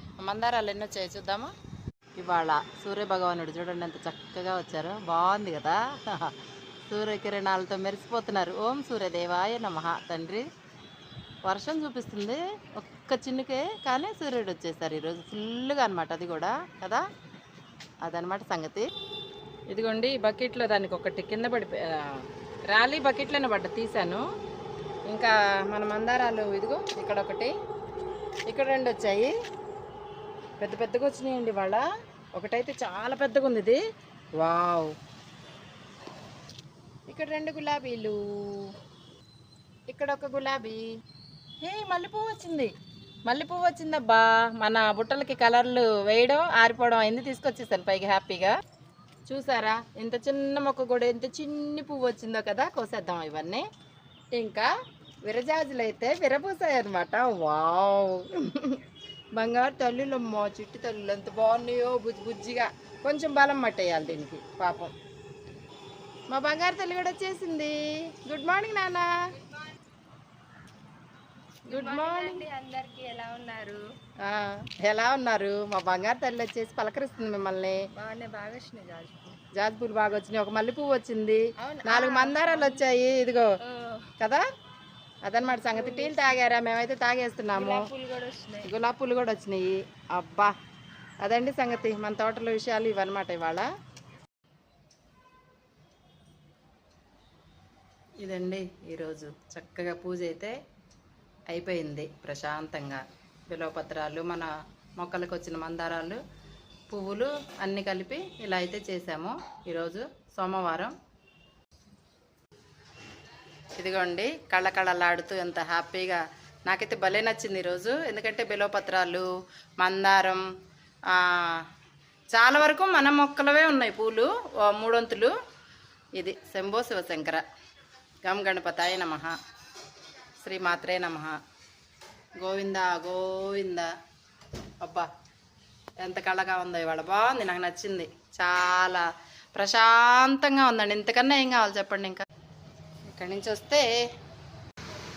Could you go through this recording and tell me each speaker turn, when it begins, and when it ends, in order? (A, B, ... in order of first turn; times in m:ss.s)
0:00.2-0:01.5 A
0:02.2-0:06.4 A
0:06.9-0:10.5 A
0:11.5-0:17.0 A
0:18.0-0:18.9 A
0:19.7-0:24.2 A
0:25.1-0:27.5 A
0:28.5-0:29.3 A
0:30.6-0:33.8 A
0:34.4-0:34.9 A
0:37.1-0:38.7 A
0:39.9-0:40.8 A
0:41.6-0:42.7 A
0:43.3-0:48.5 A
0:49.3-0:53.6 A
0:54.4-0:54.7 A
0:55.3-0:58.8 A
0:59.4-1:04.9 A
1:06.3-1:09.1 A
1:11.7-1:13.8 B
1:11.7-1:12.4 A
1:14.2-1:17.8 A
1:17.9-1:19.4 B
1:19.6-1:23.5 A
1:21.6-1:22.8 B
1:23.6-1:24.1 B
1:25.2-1:27.9 A
1:25.5-1:26.4 B
1:27.5-1:28.7 B
1:28.6-1:30.5 A
1:31.2-1:33.7 A
1:38.2-1:40.6 A
1:41.5-1:46.2 A
1:46.9-1:51.0 A
1:53.8-1:59.3 A
1:59.8-2:00.4 A
2:01.1-2:01.7 A
2:02.3-2:05.4 A
2:06.2-2:07.4 A
2:08.2-2:09.3 A
2:10.4-2:11.4 A
2:12.4-2:13.9 A
2:14.8-2:15.1 A
2:16.0-2:22.2 A
2:23.1-2:24.0 A